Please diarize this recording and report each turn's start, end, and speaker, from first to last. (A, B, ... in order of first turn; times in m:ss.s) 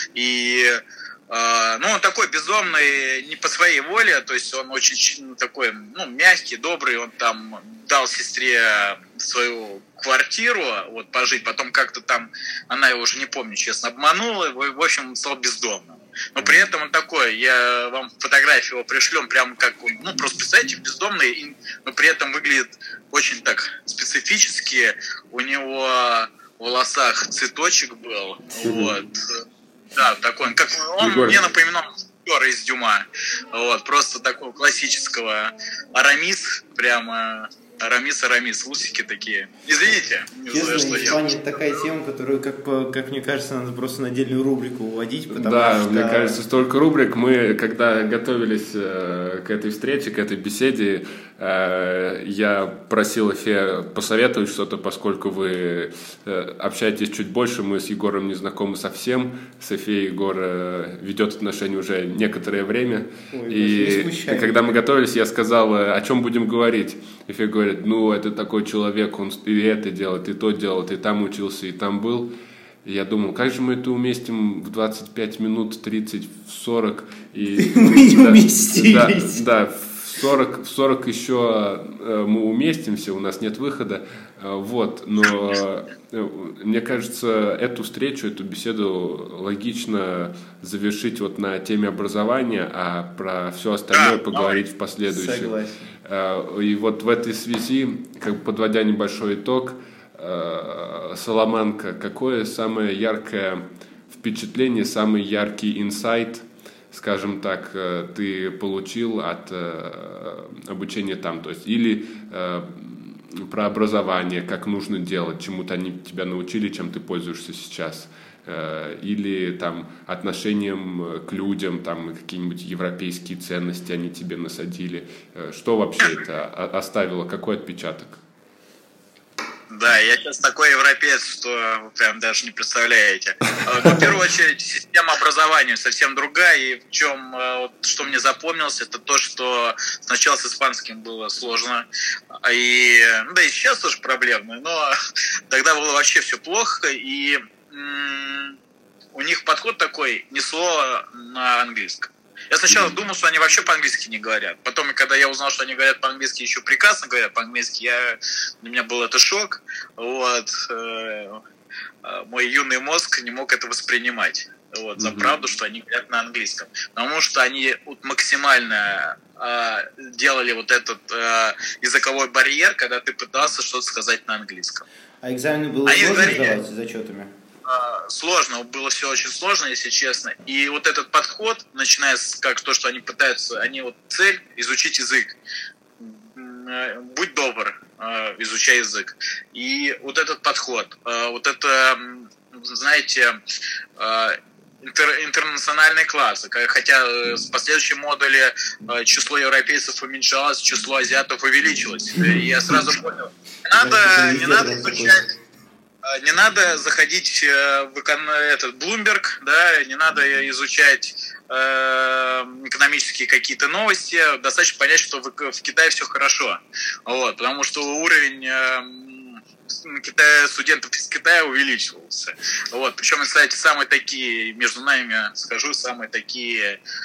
0:00.1-0:29.4 A
0:28.6-0:28.9 B
0:29.9-0:41.6 A
0:31.0-0:31.5 B
0:40.5-0:46.4 C
0:45.3-1:12.3 B
1:03.3-1:04.8 C
1:12.8-2:08.2 B
1:17.6-1:19.4 C
1:33.9-1:34.6 A
1:35.1-1:35.9 C
2:09.7-2:21.8 A
2:22.4-2:24.9 A
2:25.5-2:28.6 A
2:29.1-2:41.4 A
2:32.7-2:33.0 B
2:42.0-2:54.8 A
2:45.0-2:45.3 B
2:55.2-2:57.3 C
2:55.8-2:56.6 A
2:57.6-3:05.4 A
3:06.0-3:13.4 A
3:14.0-3:25.3 A
3:23.7-3:25.2 C
3:26.0-3:46.8 A